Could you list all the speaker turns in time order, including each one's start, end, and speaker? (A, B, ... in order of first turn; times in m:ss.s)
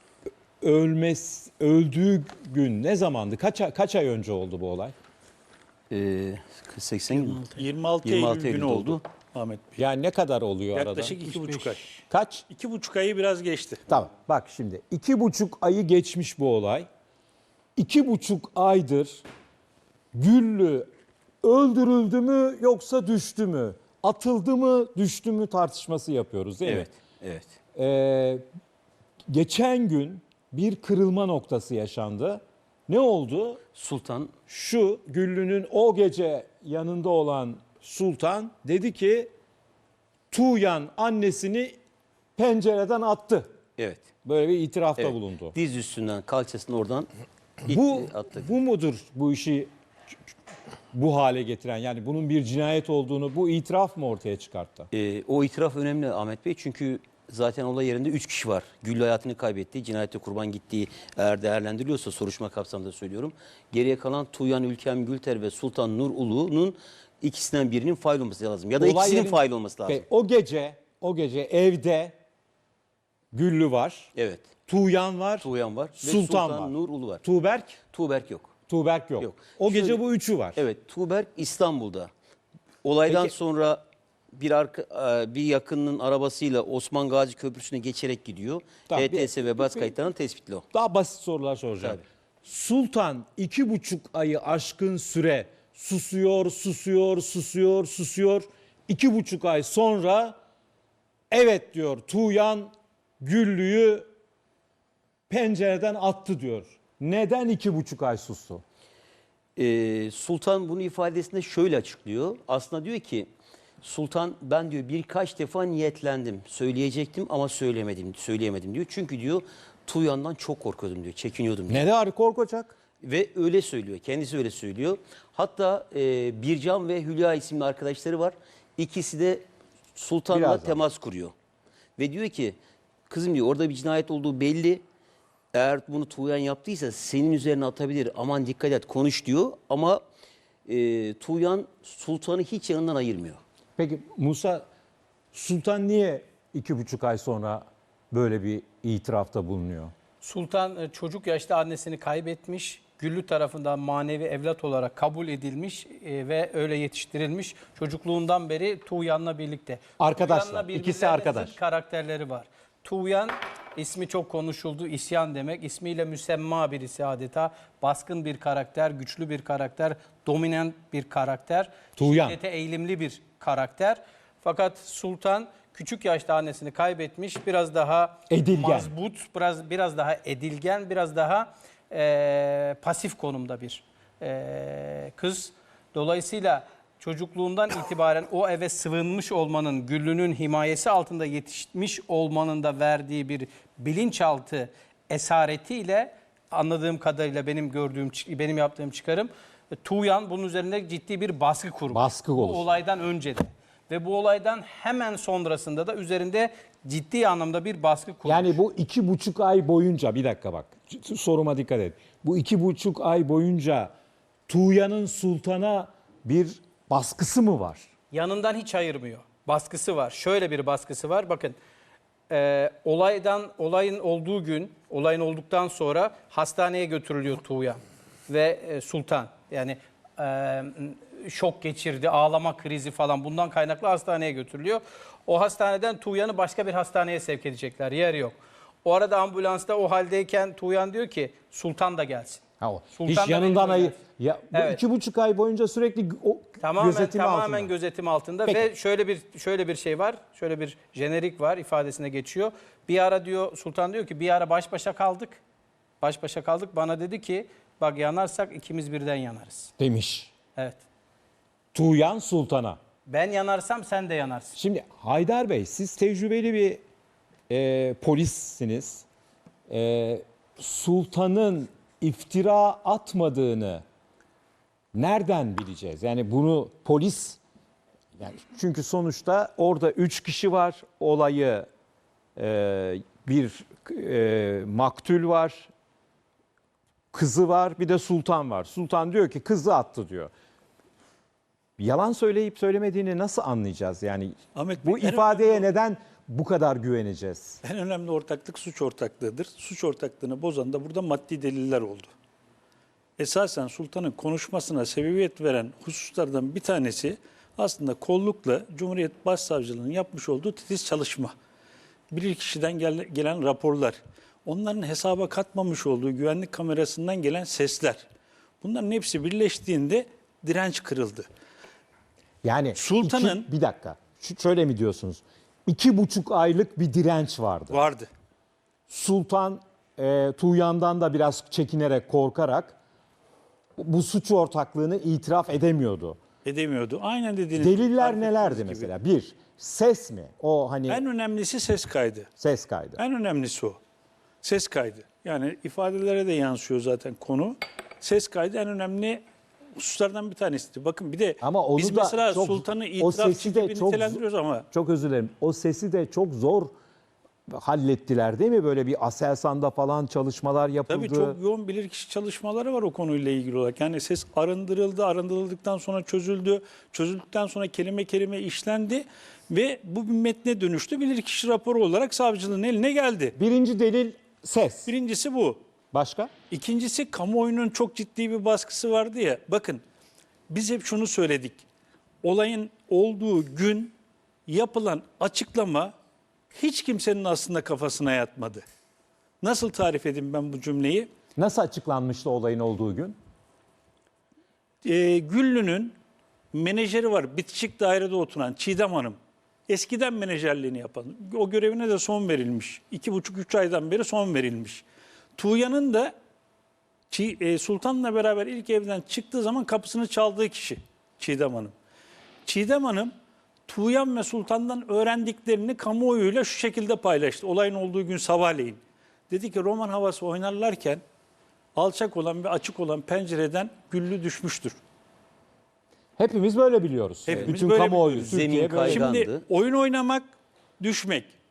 0:00.6-0:04.9 A
0:05.9-0:09.0 B
0:07.6-0:09.8 C
0:09.8-0:11.2 A
0:10.8-0:11.8 C
0:11.9-0:12.4 A
0:12.5-0:13.8 C
0:13.9-0:16.9 A
0:17.8-0:19.2 A
0:20.1-0:20.9 A
0:21.4-0:26.9 A
0:26.6-0:27.6 B
0:27.8-0:28.4 A
0:29.3-0:33.6 A
0:33.7-0:34.3 B
0:34.5-0:39.3 A
0:40.3-0:41.8 A
0:42.4-0:43.5 A
0:43.8-0:44.0 B
0:44.2-0:45.5 A
0:45.0-0:47.1 B
0:47.6-0:48.5 B
0:47.7-0:49.7 A
0:50.9-0:54.9 A
0:54.9-1:10.0 B
1:08.8-1:12.1 A
1:13.3-1:14.1 A
1:14.1-1:14.5 B
1:14.7-1:17.8 A
1:15.4-1:17.2 B
1:17.9-1:18.5 B
1:18.7-1:20.6 A
1:19.2-1:20.0 B
1:20.6-1:22.1 B
1:22.8-1:30.6 B
1:23.1-1:23.3 A
1:28.9-1:29.9 A
1:30.7-1:40.4 A
1:41.3-1:44.1 A
1:45.3-1:48.6 A
1:49.6-1:53.3 B
1:53.8-2:01.9 B
2:01.7-2:02.7 A
2:03.0-2:11.3 B
2:10.3-2:10.8 A
2:12.0-2:12.6 B
2:13.1-2:14.8 B
2:15.5-2:20.0 B
2:20.7-2:23.4 B
2:23.8-2:24.7 A
2:25.3-2:29.9 A
2:30.2-3:19.3 D
2:40.0-2:41.6 A
2:52.0-2:52.4 A
2:58.3-2:58.9 A
3:19.8-3:28.6 D
3:21.9-3:22.7 A
3:28.2-3:33.9 A
3:34.5-3:37.9 A
3:38.1-3:41.6 D
3:42.3-4:02.4 D
4:02.6-4:07.7 A
4:02.9-4:04.0 D
4:04.5-4:04.8 D
4:06.6-4:15.4 D
4:16.0-4:19.7 D
4:19.8-4:20.3 A
4:20.6-4:20.8 D
4:21.7-4:22.8 A
4:23.1-4:24.6 D
4:24.6-4:26.8 A
4:27.5-4:29.1 A
4:29.7-4:33.8 A
4:34.9-4:37.4 A
4:38.2-4:41.7 A
4:42.4-4:45.7 A
4:47.1-4:50.3 A
4:51.8-4:57.6 A
4:54.6-4:55.6 C
4:57.6-5:02.1 C
5:03.2-5:11.3 C
5:12.1-5:18.0 C
5:18.6-5:21.2 C
5:22.4-5:27.8 A
5:22.8-5:23.4 C
5:27.7-5:28.1 C
5:28.9-5:32.8 A
5:33.8-5:36.2 A
5:36.4-5:38.8 C
5:37.6-5:41.0 A
5:40.9-5:42.3 C
5:42.4-5:43.0 A
5:43.0-5:43.8 C
5:44.4-5:49.2 C
5:49.8-5:54.7 C
5:51.4-5:56.7 A
5:57.5-6:01.4 A
6:00.9-6:13.3 C
6:13.4-6:14.9 A
6:14.9-6:15.6 C
6:15.9-6:16.3 A
6:16.5-6:19.8 C
6:20.5-6:21.6 C
6:22.2-6:23.9 C
6:24.5-6:25.9 C
6:26.5-6:28.6 C
6:29.4-6:31.1 C
6:31.4-6:33.2 A
6:34.8-6:36.0 C
6:36.5-6:39.2 C
6:39.7-6:44.8 C
6:45.4-6:46.1 C
6:47.1-6:51.7 C
6:52.4-6:53.1 C
6:53.7-7:01.0 C
7:01.8-7:04.8 C
7:06.2-7:09.1 A
7:07.3-7:08.3 C
7:08.1-7:09.4 B
7:09.1-7:10.2 C
7:10.8-7:11.3 C